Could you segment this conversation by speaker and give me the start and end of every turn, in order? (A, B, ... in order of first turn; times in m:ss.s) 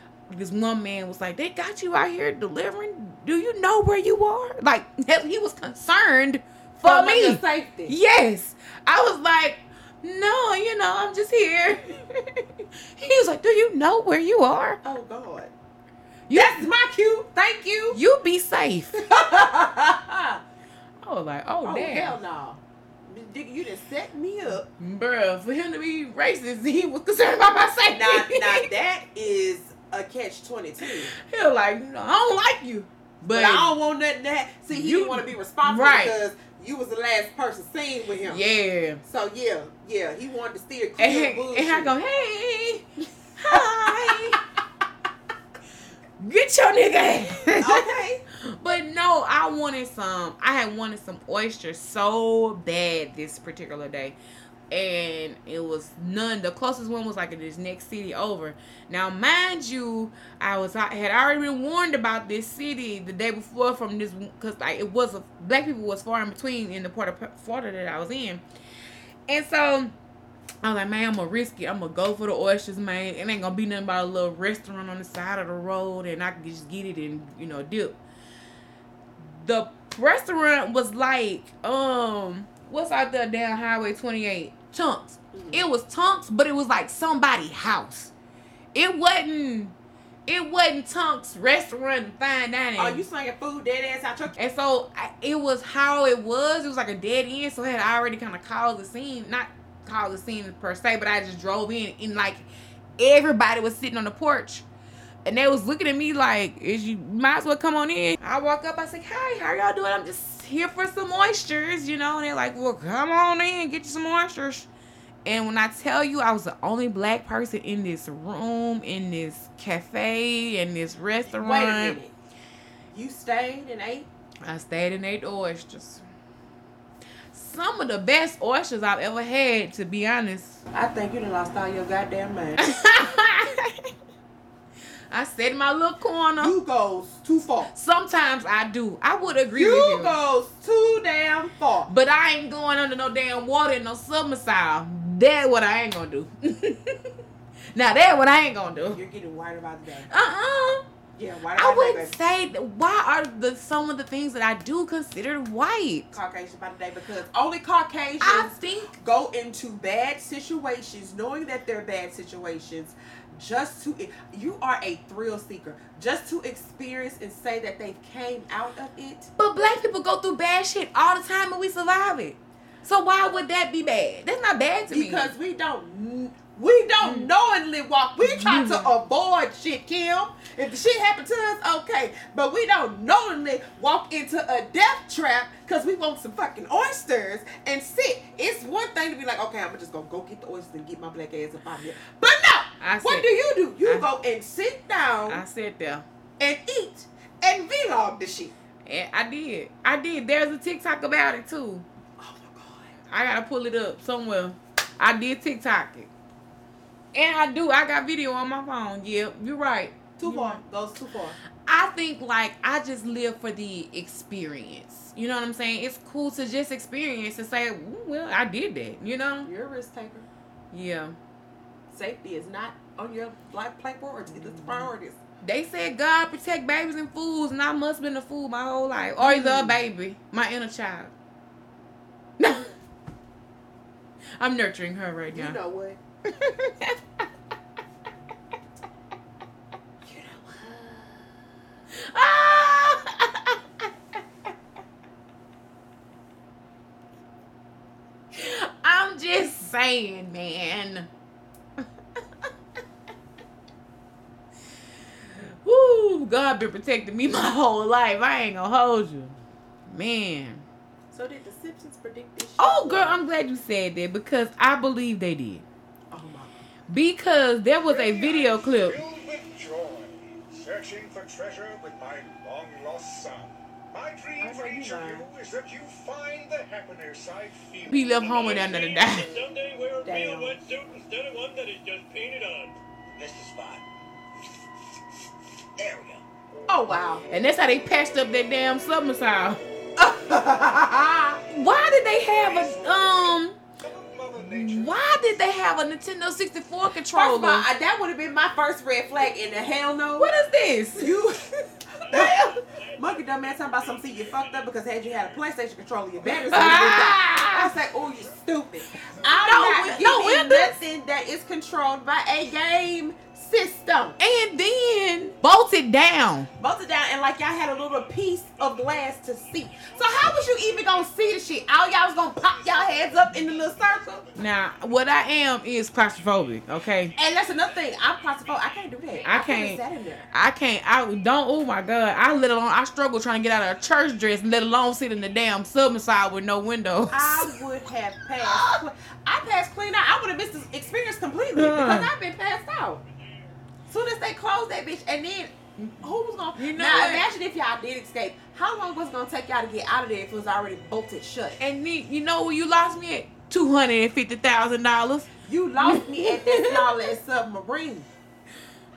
0:00.3-0:14.8 A
0:06.8-0:07.9 B
0:14.8-0:15.5 B
0:16.3-0:16.7 A
0:16.3-0:18.0 B
0:17.9-0:19.0 A
0:18.9-0:20.4 B
0:21.0-0:22.2 A
0:21.6-0:24.7 B
0:24.8-0:28.6 A
0:27.9-0:31.1 B
0:30.9-0:33.7 A
0:33.3-0:38.4 B
0:34.7-0:36.1 A
0:38.2-0:39.0 A
0:39.0-0:41.9 B
0:41.0-0:44.4 A
0:43.5-0:44.2 B
0:46.2-0:47.9 A
0:47.6-0:48.2 B
0:48.4-0:54.2 A
0:54.7-1:08.4 A
1:09.3-1:09.9 A
1:10.6-1:18.0 A
1:19.4-1:28.1 A
1:25.3-1:25.6 B
1:28.7-1:29.8 A
1:30.3-1:33.0 A
1:32.8-1:34.4 B
1:34.4-1:42.4 A
1:43.0-1:44.6 A
1:45.2-1:54.7 A
1:55.2-2:02.0 A
2:01.3-2:02.1 B
2:02.9-2:04.1 B
2:04.4-2:06.0 A
2:07.3-2:10.6 A
2:10.7-2:12.7 B
2:12.6-2:13.9 A
2:15.1-2:16.5 A
2:16.4-2:17.7 B
2:17.7-2:20.2 A
2:19.5-2:21.9 B
2:21.9-2:27.2 A
2:27.7-2:29.0 A
2:28.9-2:30.1 B
2:30.1-2:30.8 A
2:31.2-2:32.1 B
2:31.6-2:36.2 A
2:36.1-2:49.3 B
2:38.2-2:38.9 A
2:49.4-2:55.3 A
2:54.9-3:15.4 B
2:57.0-2:57.3 A
2:58.2-2:58.9 A
3:12.8-3:13.3 A
3:13.8-3:14.1 A
3:15.3-3:16.0 A
3:16.4-3:18.5 B
3:18.8-3:21.8 A
3:22.2-3:23.0 B
3:23.1-3:26.1 A
3:27.1-3:30.6 A
3:30.2-3:31.4 B
3:31.6-3:39.5 A
3:39.4-3:40.3 B
3:40.7-3:41.2 A
3:41.9-3:45.2 B
3:44.3-3:44.9 A
3:45.4-3:51.1 A
3:49.2-3:49.8 B
3:52.4-3:52.7 A
3:54.4-3:55.6 A
3:55.3-3:56.0 B
3:56.2-3:57.0 A
4:00.0-4:01.2 B
4:01.9-4:04.2 A
4:08.3-4:11.1 A
4:11.8-4:12.5 A
4:15.4-4:20.6 A
4:21.1-4:23.2 B
4:22.6-4:25.6 A
4:26.1-4:26.5 B
4:26.9-4:29.0 A
4:27.9-4:43.8 C
4:34.4-4:35.3 B
4:37.9-4:39.3 A
4:40.0-4:40.6 B
4:45.8-4:46.2 C
4:46.7-4:47.2 B
4:47.3-4:49.6 A
4:50.0-4:51.4 B
4:51.4-4:53.6 A
4:52.4-4:55.2 C
4:54.4-4:57.6 A
4:57.1-5:00.3 B
5:00.2-5:01.2 A
5:00.9-5:14.2 B
5:02.2-5:02.6 C
5:06.3-5:07.7 A
5:09.2-5:10.8 A
5:14.2-5:16.5 A
5:16.6-5:24.3 B
5:24.4-5:27.1 A
5:27.2-5:30.3 B
5:29.2-5:37.6 A
5:37.1-5:43.0 B
5:38.4-5:38.8 A
5:41.5-5:42.1 A
5:43.9-5:51.6 B
5:46.5-5:47.3 A
5:51.6-5:57.1 A
5:55.4-5:58.1 B